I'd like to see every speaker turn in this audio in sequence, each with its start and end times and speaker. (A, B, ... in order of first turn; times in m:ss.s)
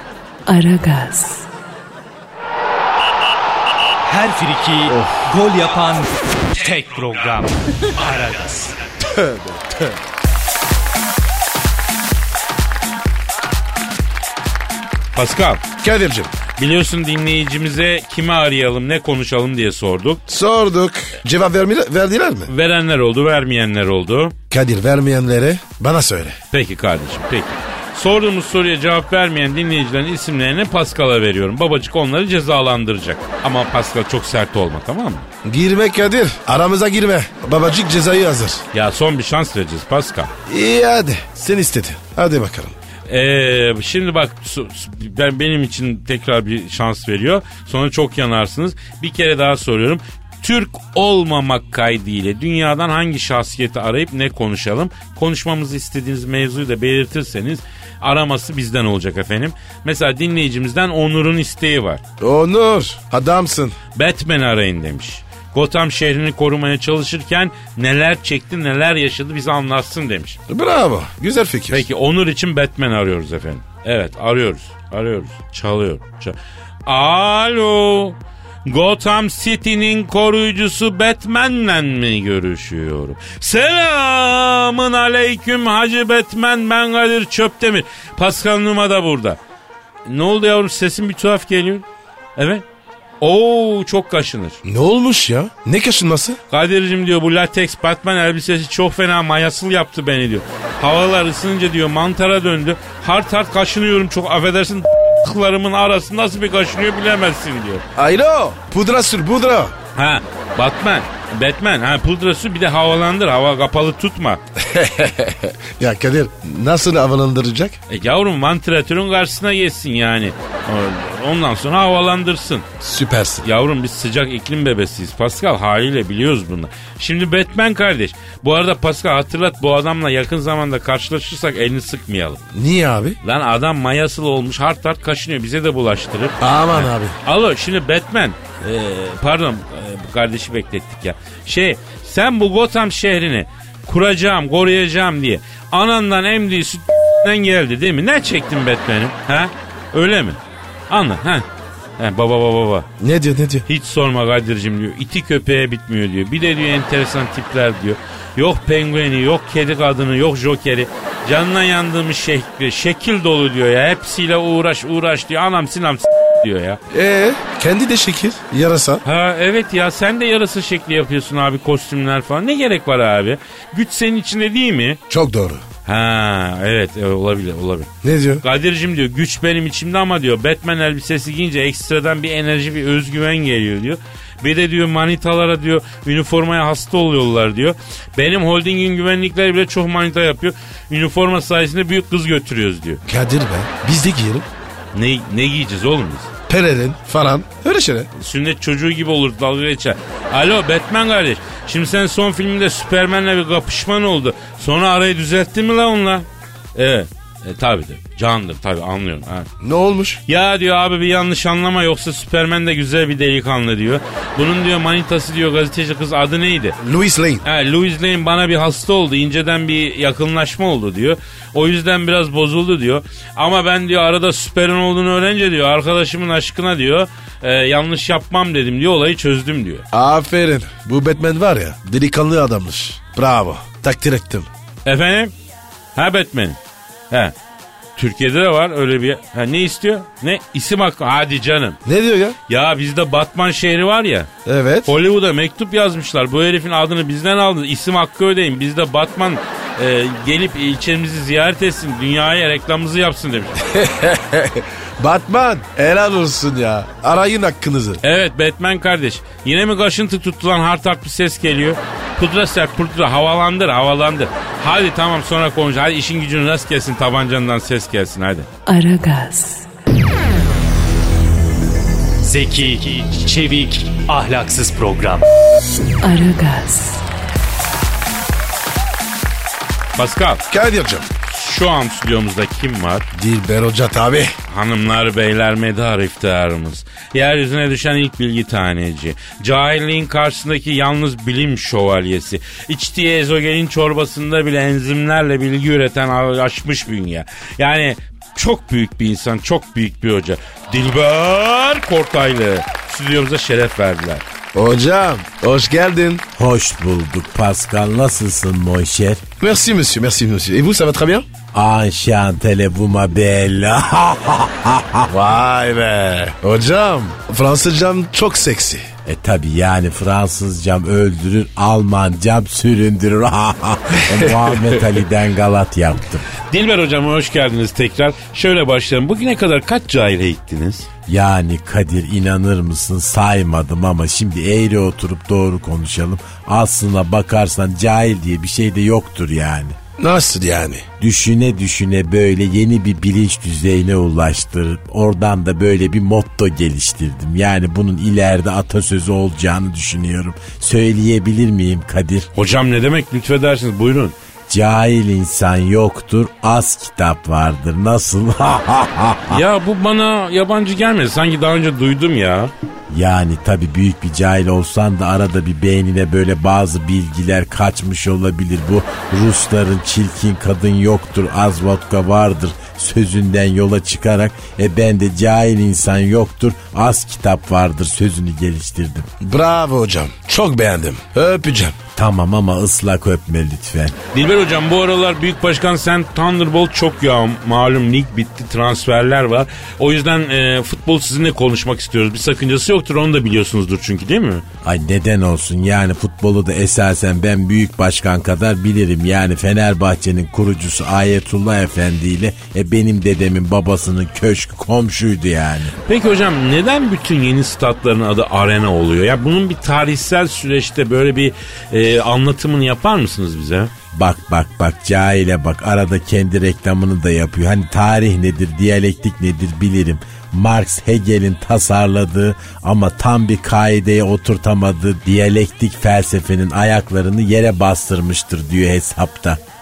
0:00.4-0:01.4 A
0:04.0-0:08.8 B
0:04.9-0:05.2 C
0:09.0-0:09.9 C
0:15.1-0:15.6 D
0:15.8-0:16.3 C
0:16.6-0:20.2 D
0:20.3-0:22.5 C
0:22.5-0:24.3 D
0:24.5-0:26.4 C
0:26.5-0:35.3 D
0:35.4-0:38.6 C
0:38.7-0:40.3 D
0:40.5-0:42.7 C
0:43.1-1:02.0 D
1:02.2-1:03.8 C
1:03.9-1:10.4 D
1:10.5-1:11.8 C
1:11.7-1:29.4 D
1:30.0-1:31.8 D
1:32.4-1:32.6 D
1:33.2-1:34.6 D
1:34.6-1:36.4 C
1:36.5-1:47.8 D
1:48.0-1:49.7 C
1:49.9-1:54.4 D
1:54.6-1:57.8 C
1:57.9-2:02.6 D
2:02.8-2:03.5 C
2:03.4-2:12.4 D
2:12.5-2:13.2 C
2:13.2-2:31.4 D
2:16.4-2:17.2 C
2:32.0-2:32.9 D
2:33.0-2:33.6 C
2:33.7-2:46.8 D
2:46.9-2:49.0 C
2:49.0-2:55.0 D
2:55.1-2:55.6 C
2:55.8-2:57.9 D
2:58.0-2:58.4 C
2:58.4-3:13.0 D
3:13.0-3:14.5 C
3:14.9-3:16.3 D
3:16.5-3:18.1 C
3:18.1-3:29.5 D
3:29.6-3:30.2 C
3:30.2-3:36.8 D
3:36.8-3:37.4 C
3:37.4-3:49.8 D
3:49.9-3:54.5 C
3:54.8-3:55.3 D
3:55.9-3:56.6 D
3:58.0-4:01.8 D
4:01.8-4:02.4 C
4:02.5-4:04.3 D
4:04.4-4:04.9 C
4:04.8-4:13.7 D
4:13.6-4:18.0 C
4:18.0-4:28.5 D
4:28.6-4:29.7 A
4:32.2-4:35.2 B
4:36.0-4:37.0 A
4:40.0-4:40.4 D
4:40.5-4:41.1 C
4:41.2-4:43.1 D
4:43.1-4:44.3 C
4:44.5-5:04.2 D
5:04.5-5:06.2 C
5:06.3-5:09.2 E
5:09.4-5:11.3 C
5:11.5-5:15.1 E
5:15.1-5:18.9 C
5:19.0-5:26.2 E
5:26.5-5:30.9 D
5:31.1-5:39.8 E
5:40.0-5:40.9 C
5:41.0-5:52.3 E
5:52.3-5:54.2 D
5:54.5-5:59.4 E
5:59.3-6:02.5 D
6:02.9-6:19.1 E
6:19.2-6:21.8 C
6:21.9-6:23.9 E
6:24.1-6:34.4 D
6:34.6-6:45.7 E
6:45.8-6:53.7 D
6:53.9-7:09.4 E